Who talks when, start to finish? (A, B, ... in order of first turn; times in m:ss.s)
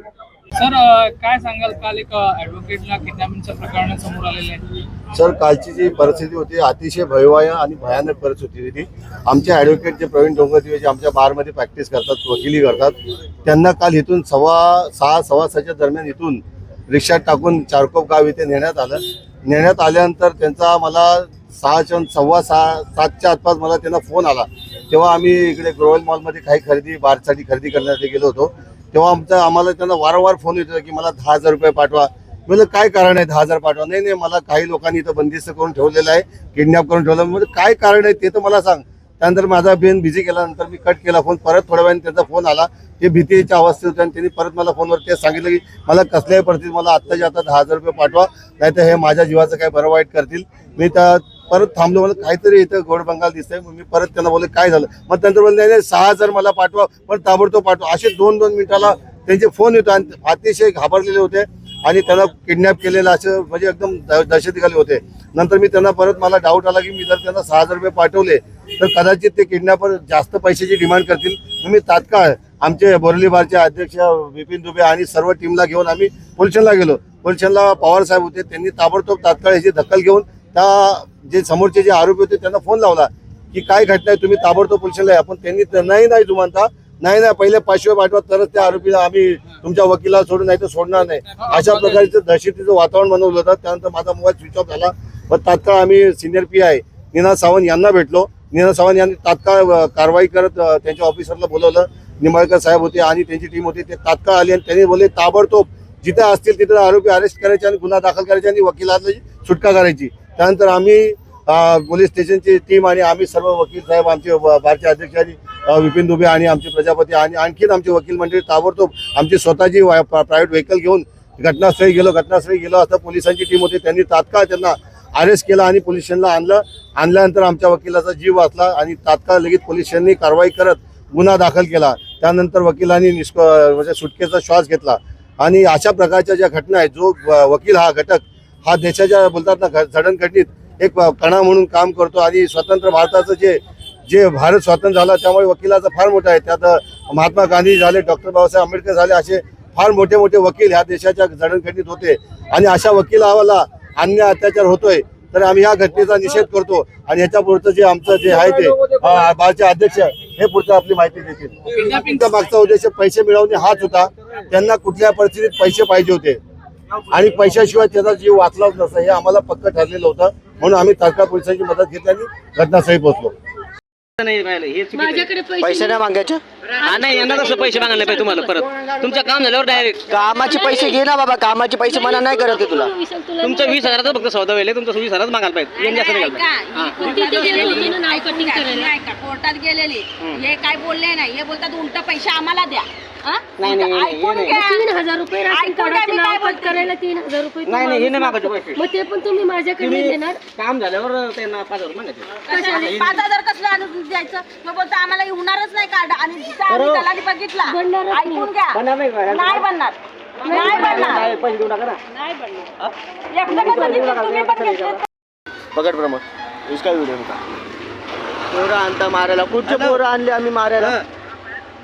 0:00.6-0:04.8 A
0:05.1-2:46.4 B
2:38.2-2:39.2 A
2:41.7-2:42.4 A
2:47.1-2:53.3 B
2:54.2-2:55.2 C
2:54.9-2:56.1 D
2:55.6-2:56.4 E
2:56.8-2:58.7 D
2:57.1-3:00.1 C
3:00.1-3:01.2 D
3:00.1-3:02.9 E
3:01.8-3:04.2 D
3:03.4-3:07.8 C
3:05.8-3:14.8 F
3:07.0-3:09.0 D
3:14.5-3:20.4 D
3:15.5-3:16.9 F
3:17.6-3:18.8 C
3:19.8-3:23.2 C
3:22.5-3:28.8 F
3:22.5-3:23.1 D
3:27.6-3:28.5 D
3:29.3-3:30.0 F
3:30.4-3:31.2 D
3:30.6-3:31.9 C
3:30.6-3:31.3 F
3:33.3-3:35.0 F
3:35.8-3:37.4 E
3:38.5-3:40.9 E